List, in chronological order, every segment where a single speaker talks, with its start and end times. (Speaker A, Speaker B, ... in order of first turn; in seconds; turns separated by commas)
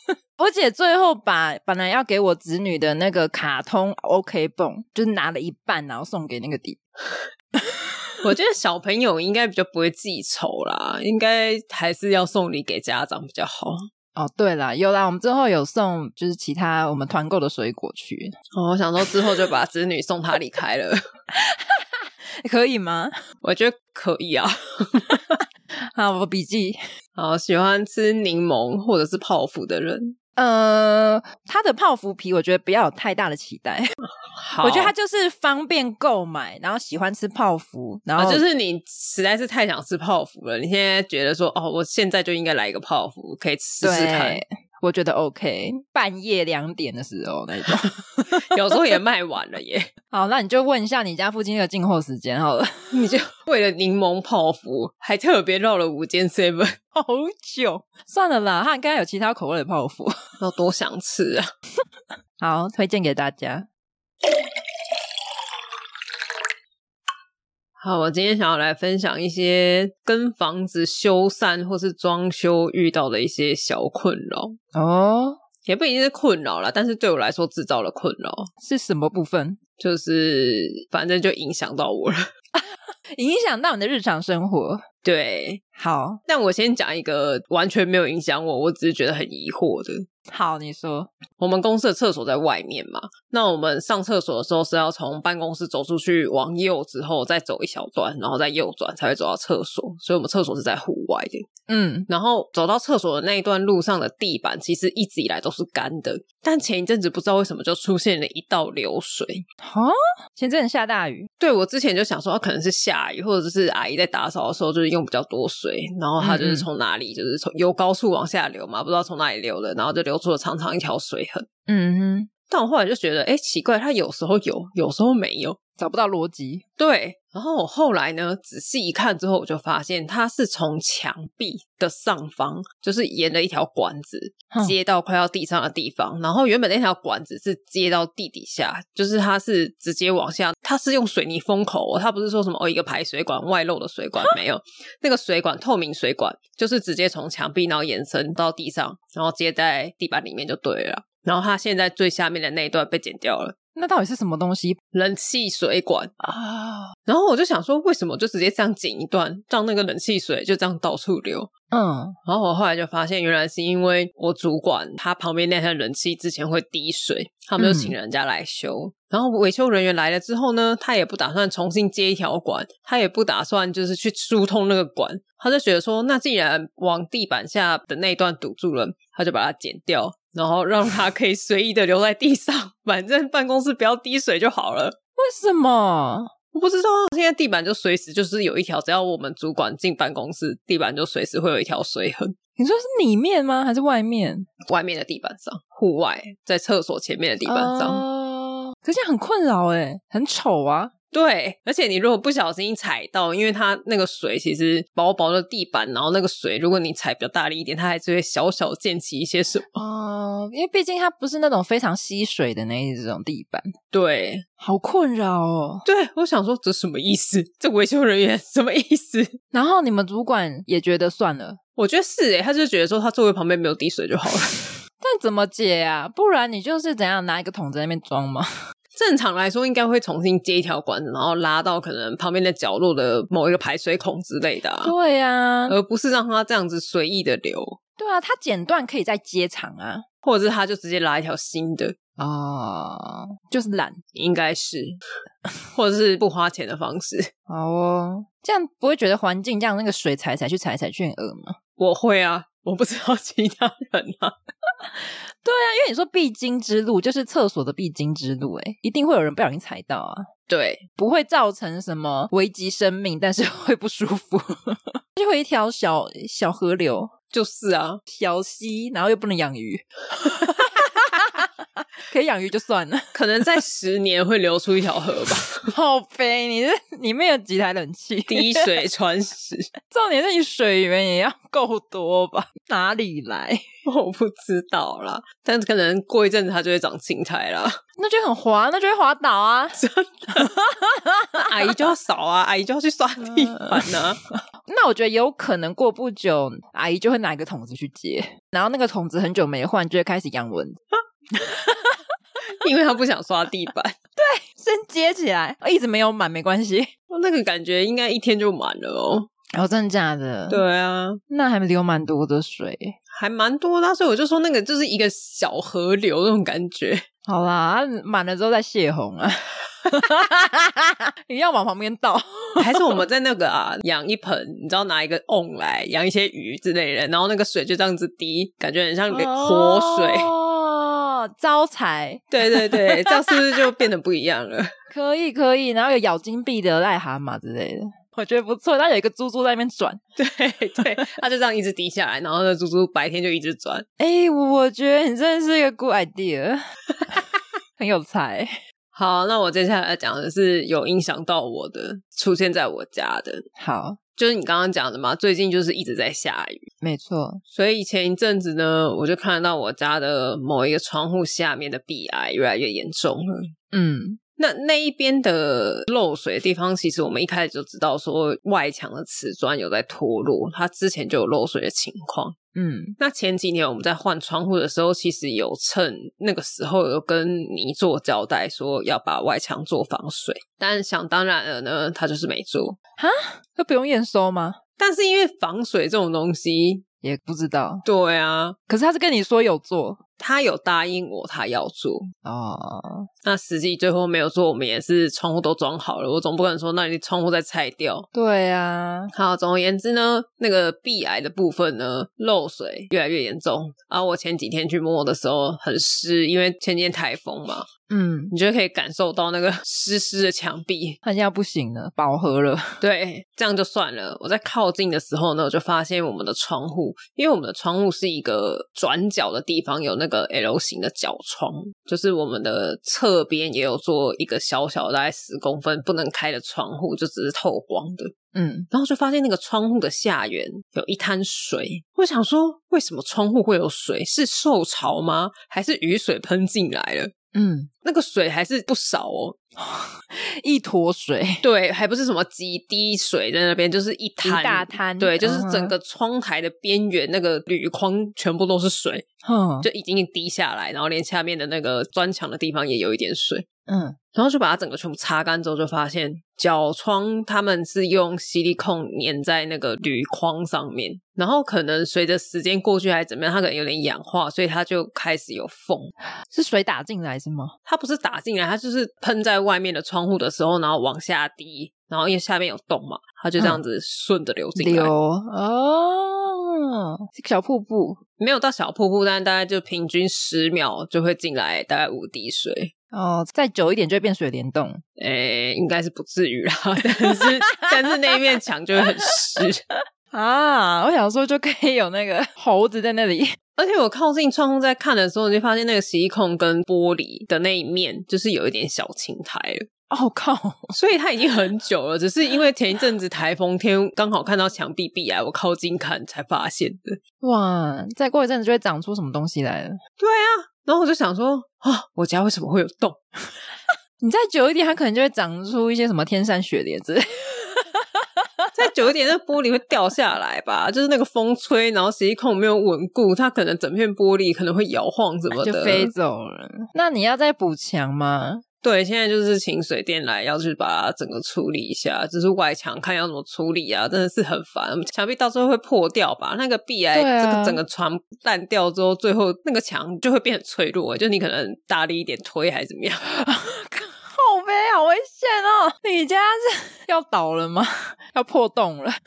Speaker A: 0.4-6.8, Speaker A: 7.5-8.3, Speaker B: 8.2-13.9, Speaker A: 14.2-18.3, Speaker B: 18.5-21.0, Speaker A: 21.3-23.1, Speaker B: 23.4-25.4, Speaker A: 25.7-26.8, Speaker B: 27.1-30.1, Speaker A: 30.4-33.9, Speaker B: 34.2-34.9, Speaker A: 34.6-38.4, Speaker B: 38.2-44.4, Speaker A: 43.8-48.7, Speaker B: 48.3-49.9, Speaker A: 50.1-53.1, Speaker B: 52.9-56.8, Speaker A: 56.9-60.1, Speaker B: 60.4-61.5, Speaker A: 62.4-63.7, Speaker B: 67.8-74.6, Speaker A: 74.7-75.4, Speaker B: 75.7-78.5, Speaker A: 78.6-79.6, Speaker B: 79.8-82.2, Speaker A: 82.5-84.8, Speaker B: 85.0-85.6, Speaker A: 85.8-86.2, Speaker B: 86.2-90.0, Speaker A: 90.3-91.1, Speaker B: 91.4-101.5, Speaker A: 101.7-102.1, Speaker B: 102.1-109.4, Speaker A: 109.6-111.3, Speaker B: 111.4-121.5, Speaker A: 116.2-116.7, Speaker A: 121.7-122.3, Speaker B: 122.5-125.6, Speaker A: 125.8-126.6, Speaker B: 126.8-153.5, Speaker A: 134.5-134.8, Speaker A: 153.7-154.8, Speaker B: 154.9-156.1, Speaker A: 156.2-156.9, Speaker B: 157.1-161.5, Speaker A: 161.7-162.2, Speaker B: 162.2-185.0, Speaker A: 167.6-167.9, Speaker A: 185.2-186.3, Speaker B: 186.5-192.3, Speaker A: 192.6-194.5, Speaker B: 194.7-198.0, Speaker A: 197.4-200.9, Speaker B: 201.1-209.8, Speaker A: 209.7-213.7, Speaker B: 213.9-214.4, Speaker A: 214.6-215.8, Speaker B: 215.8-219.4, Speaker A: 219.5-221.6, Speaker B: 221.8-224.7, Speaker A: 225.0-228.5, Speaker B: 228.9-234.9, Speaker A: 234.8-235.8, Speaker B: 235.7-237.8, Speaker A: 238.0-240.0, Speaker B: 240.2-241.9, Speaker A: 242.2-244.0, Speaker B: 244.1-245.0, Speaker B: 245.7-247.3, Speaker A: 247.5-251.6, Speaker B: 251.8-254.3, Speaker A: 254.8-260.3, Speaker B: 260.5-260.8, Speaker A: 261.0-267.1, Speaker B: 267.3-268.0, Speaker A: 268.1-273.1, Speaker B: 273.1-275.7, Speaker A: 275.7-278.7, Speaker B: 278.3-279.7, Speaker A: 279.9-283.6, Speaker B: 283.8-287.8, Speaker A: 288.0-289.8, Speaker B: 289.8-290.5, Speaker A: 290.4-291.5, Speaker B: 291.5-294.2, Speaker A: 293.2-300.8, Speaker A: 301.3-302.0, Speaker B: 302.4-303.9, Speaker A: 304.1-306.9, Speaker B: 307.1-309.3, Speaker A: 309.5-310.6, Speaker B: 310.5-311.2, Speaker A: 311.3-312.9, Speaker B: 313.1-317.1, Speaker A: 317.2-323.0, Speaker B: 322.6-330.3, Speaker A: 329.1-333.4, Speaker B: 332.3-334.7, Speaker A: 334.9-340.0, Speaker B: 340.2-343.9, Speaker A: 344.0-347.2, Speaker A: 347.8-348.6, Speaker B: 348.9-353.4, Speaker A: 353.6-354.0, Speaker B: 354.1-356.6, Speaker A: 356.8-357.4, Speaker B: 357.5-363.5, Speaker A: 363.7-364.2, Speaker B: 364.4-372.4, Speaker A: 372.5-373.0, Speaker B: 373.0-382.8, Speaker A: 383.0-384.6, Speaker B: 384.8-386.8, Speaker A: 387.0-387.8, Speaker B: 387.8-388.6, Speaker A: 388.7-390.0, Speaker B: 390.2-392.1, Speaker A: 392.2-393.1, Speaker B: 393.2-398.1, Speaker A: 398.1-399.1, Speaker B: 399.1-407.7, Speaker A: 407.9-408.3, Speaker B: 408.3-411.0, Speaker A: 411.0-412.8, Speaker B: 412.8-428.1, Speaker A: 428.3-428.7, Speaker B: 428.7-437.1, Speaker A: 437.3-437.7, Speaker B: 437.8-439.4, Speaker A: 439.6-441.4, Speaker B: 441.4-449.0, Speaker A: 444.2-445.7, Speaker A: 449.2-449.7, Speaker B: 449.6-453.4, Speaker A: 453.7-454.0, Speaker B: 454.1-465.9, Speaker A: 466.3-467.5, Speaker B: 467.7-474.9, Speaker A: 474.6-478.0, Speaker B: 478.2-482.7, Speaker A: 482.9-484.8, Speaker B: 485.0-489.6, Speaker A: 489.7-493.4, Speaker B: 493.6-499.7, Speaker A: 499.9-500.7, Speaker B: 500.7-507.0, Speaker A: 507.2-509.8, Speaker B: 510.0-513.0, Speaker A: 514.0-518.5, Speaker B: 518.5-525.9, Speaker A: 525.4-528.4, Speaker B: 528.6-543.0, Speaker A: 536.9-537.6, Speaker A: 543.0-549.0